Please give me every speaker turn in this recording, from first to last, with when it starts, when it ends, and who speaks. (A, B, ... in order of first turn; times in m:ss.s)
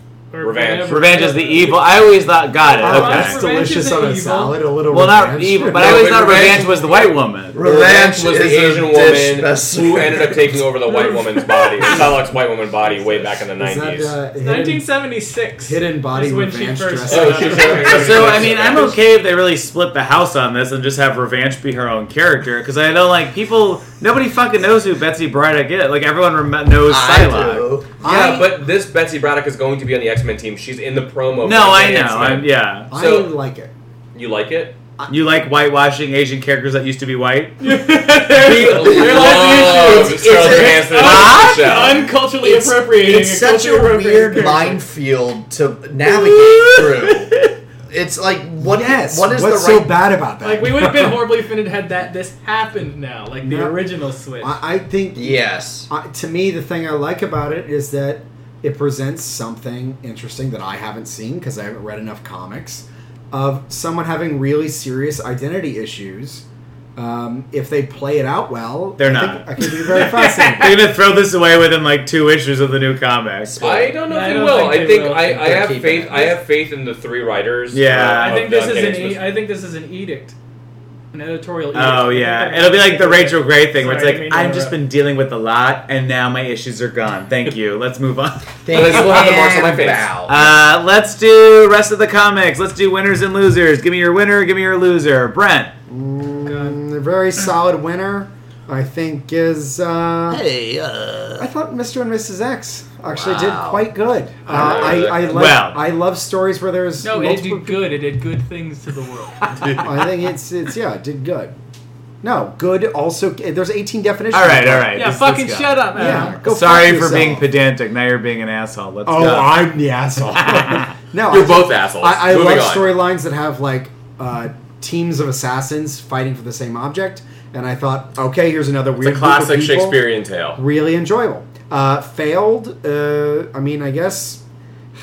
0:00.3-0:02.0 A
0:00.4-0:01.1 B
0:00.9-0:03.4 C
0:02.7-0:04.6 A
0:02.8-0:06.1 D
0:04.9-0:07.6 C
0:05.7-0:07.0 B
0:07.5-0:10.6 E
0:07.6-0:14.2 B
0:10.9-0:12.2 A
0:12.8-0:13.4 A
0:13.6-0:14.8 D
0:14.4-0:18.7 A
0:15.6-0:18.1 D
0:17.0-0:19.0 B
0:17.8-0:27.8 C
0:26.8-0:28.0 E
0:28.0-0:28.5 D
0:28.0-0:33.3 B
0:31.4-0:32.9 C
0:32.9-0:33.7 D
0:34.1-0:34.8 B
0:35.0-0:35.4 D
0:35.1-0:38.0 C
0:37.6-0:44.8 A
0:38.3-0:42.0 B
0:38.4-0:50.0 E
0:46.1-0:46.4 C
0:46.6-0:46.9 A
0:48.6-0:51.2 D
0:50.4-0:54.6 A
0:53.4-0:53.8 D
0:54.4-1:06.4 D
0:55.1-0:55.9 E
1:07.0-1:10.9 D
1:09.0-1:13.6 C
1:09.9-1:10.6 A
1:13.4-1:14.0 E
1:13.6-1:19.3 B
1:14.0-1:15.3 A
1:15.2-1:16.4 E
1:17.7-1:18.5 C
1:18.2-1:20.3 A
1:21.1-1:24.8 A
1:21.7-1:28.5 C
1:28.6-1:30.6 E
1:28.7-1:30.1 B
1:30.3-1:35.7 C
1:35.9-1:40.4 D
1:36.4-1:36.8 A
1:40.3-1:41.5 E
1:41.4-1:48.0 D
1:43.1-1:43.8 E
1:44.5-1:45.4 B
1:45.2-1:45.8 C
1:47.0-1:49.9 A
1:49.6-1:49.8 C
1:49.7-1:51.5 D
1:52.2-1:55.2 D
1:54.3-1:59.7 C
1:54.9-1:56.4 A
1:55.9-1:57.5 D
1:59.0-2:10.0 D
2:00.4-2:00.9 C
2:01.3-2:03.0 B
2:09.0-2:10.6 B
2:10.6-2:14.4 D